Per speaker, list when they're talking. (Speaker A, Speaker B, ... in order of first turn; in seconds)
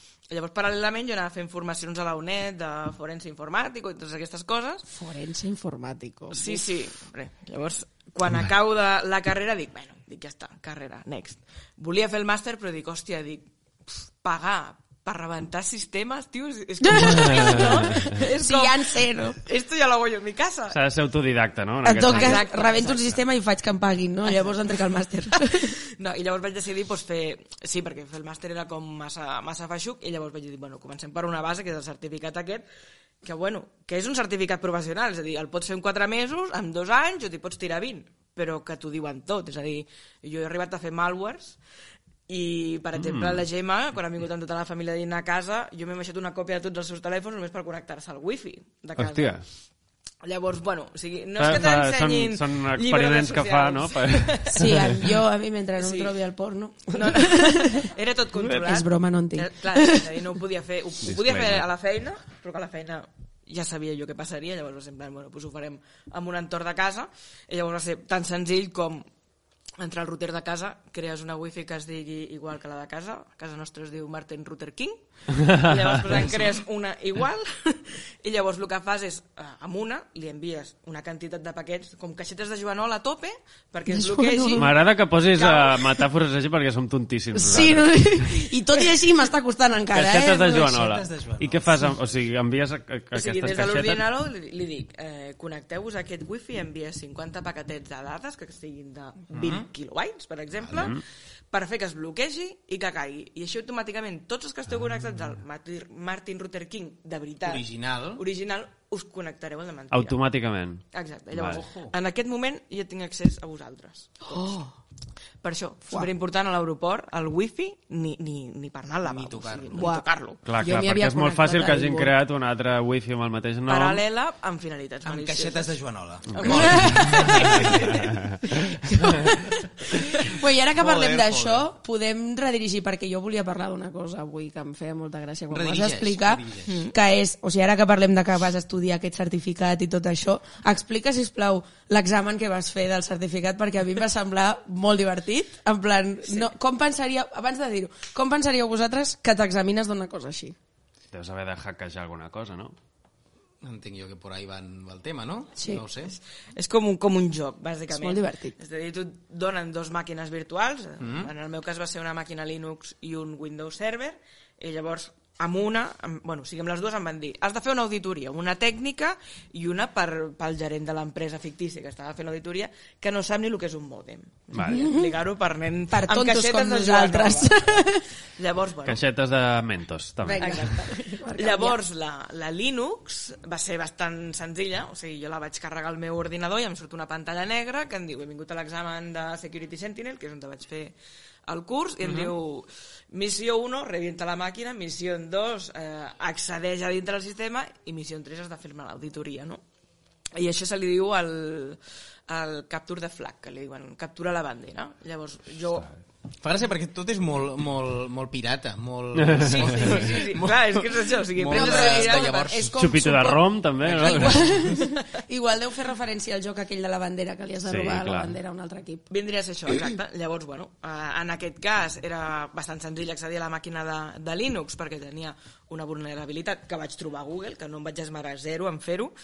Speaker A: 0.3-4.9, 6.3-20.8, 22.1-23.2, 24.2-24.6, 25.6-32.6, 33.2-41.6, 42.3-49.4, 50.2-54.6, 55.8-56.1, 56.9-69.1, 69.8-84.7, 85.4-85.8, 93.1-101.0, 101.5-107.6, 108.1-110.2, 110.9-114.3, 115.4-120.4, 123.7-125.7, 126.3-128.1, 136.6-136.9, 156.0-179.0, 180.4-190.9, 191.5-199.6, 200.3-205.9, 209.4-212.6, 219.1-229.1
Speaker B: 4.9-6.6, 16.8-19.4, 21.8-25.7, 54.5-60.2, 83.9-84.7, 87.3-90.7, 114.3-114.7, 119.7-120.0, 120.6-122.1, 126.4-127.9, 128.5-150.6, 155.6-155.8, 157.9-158.5, 174.6-175.1, 175.9-178.1, 180.2-181.8, 211.5-219.1
Speaker C: 20.7-22.4, 43.0-43.4, 49.0-49.4, 51.4-54.8, 61.0-61.6, 84.5-88.4, 89.9-94.0, 100.7-101.0, 109.9-110.8, 120.5-124.0, 127.9-128.3, 151.1-152.7, 174.5-174.9, 178.8-180.8, 209.2-210.0, 212.7-214.4, 217.6-218.3
Speaker D: 90.4-91.8, 99.3-99.7, 107.4-108.2, 111.4-111.9, 119.0-119.9, 125.0-127.7, 130.8-131.7, 135.5-136.8, 153.6-156.2, 161.0-161.3, 206.4-212.7, 213.8-214.8